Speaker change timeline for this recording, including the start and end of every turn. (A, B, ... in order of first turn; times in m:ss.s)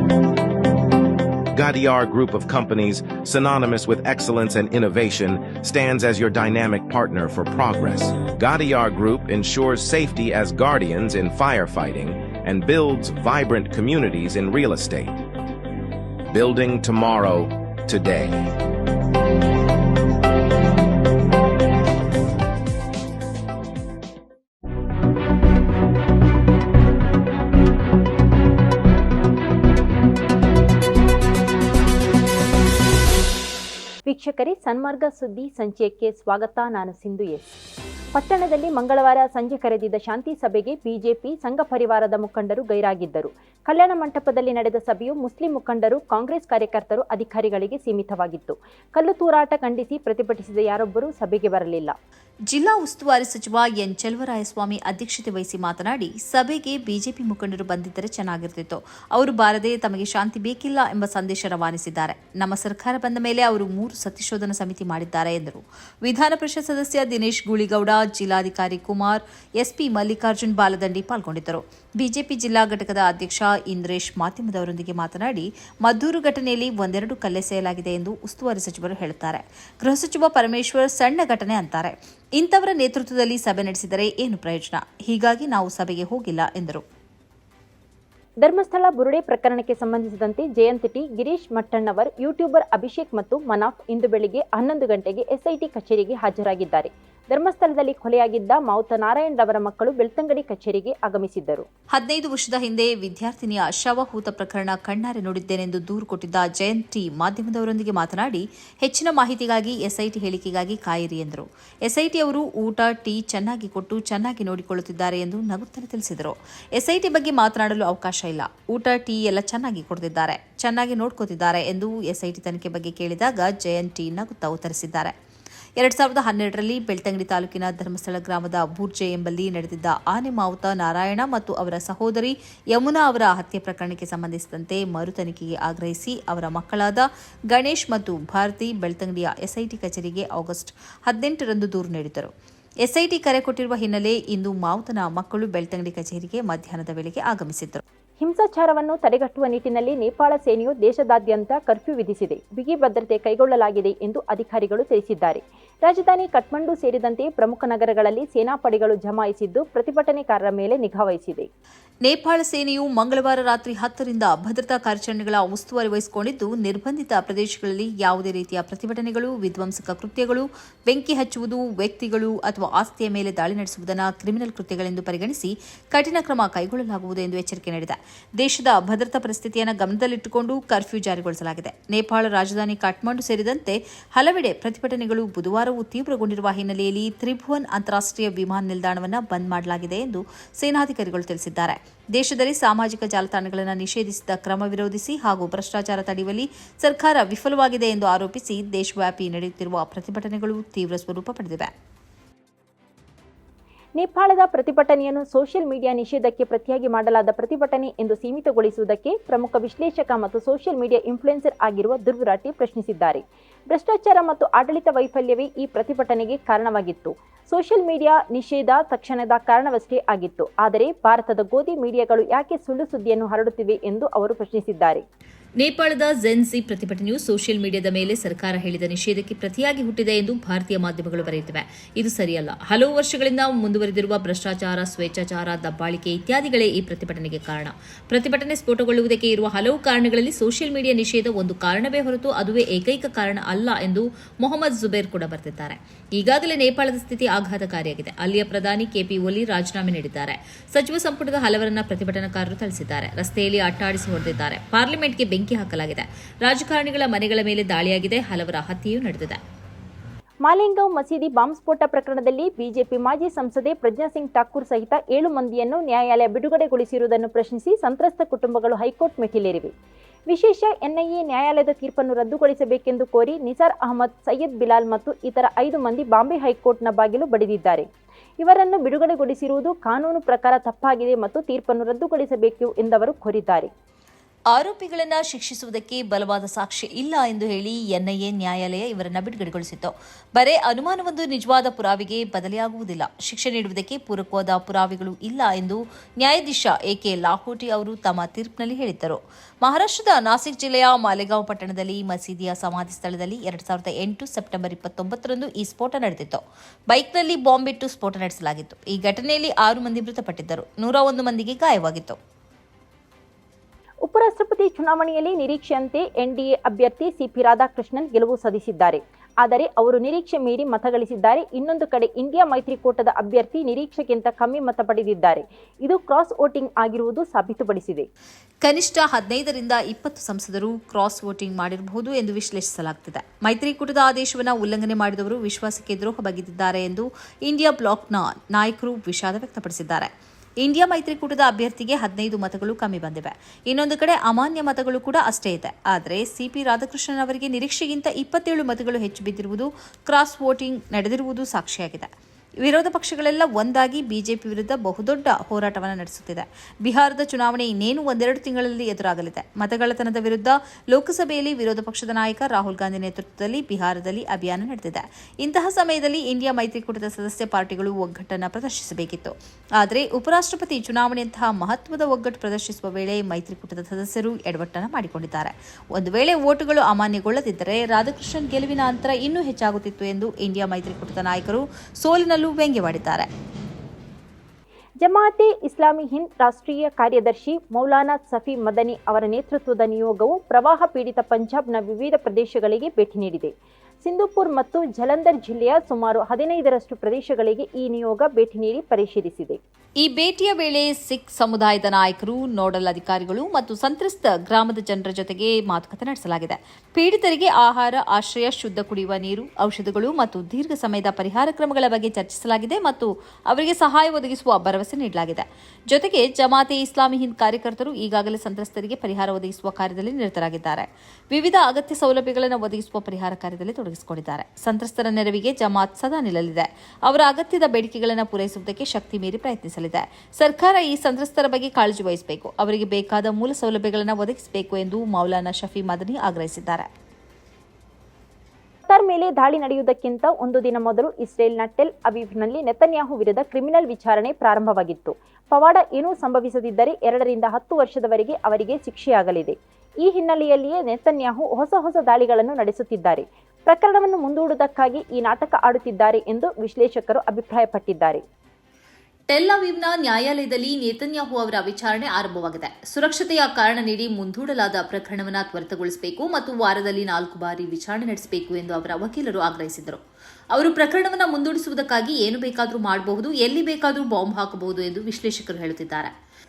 0:01.5-0:15.2 A
0:16.3-0:18.4 A
0:34.0-0:37.4 B
0:38.1-0:51.9 B
0:52.5-1:26.8 C
1:28.4-1:41.6 B
1:41.9-2:05.1 C
2:05.8-2:22.3 C
2:22.8-2:27.8 C
2:28.2-2:41.5 B
2:42.0-3:21.7 C
3:24.0-3:45.0 B
3:45.6-4:19.4 C
4:20.4-4:29.7 B
4:30.3-4:37.8 B
4:38.4-4:43.7 B
4:44.5-5:12.2 C
5:14.0-5:28.1 B
5:28.6-5:40.1 C
5:40.6-5:52.1 C
5:52.6-6:23.3 C
6:25.0-6:39.6 B
6:40.0-7:16.9 C
7:18.9-7:38.2 B
7:39.3-7:50.0 C
7:50.5-7:56.1 C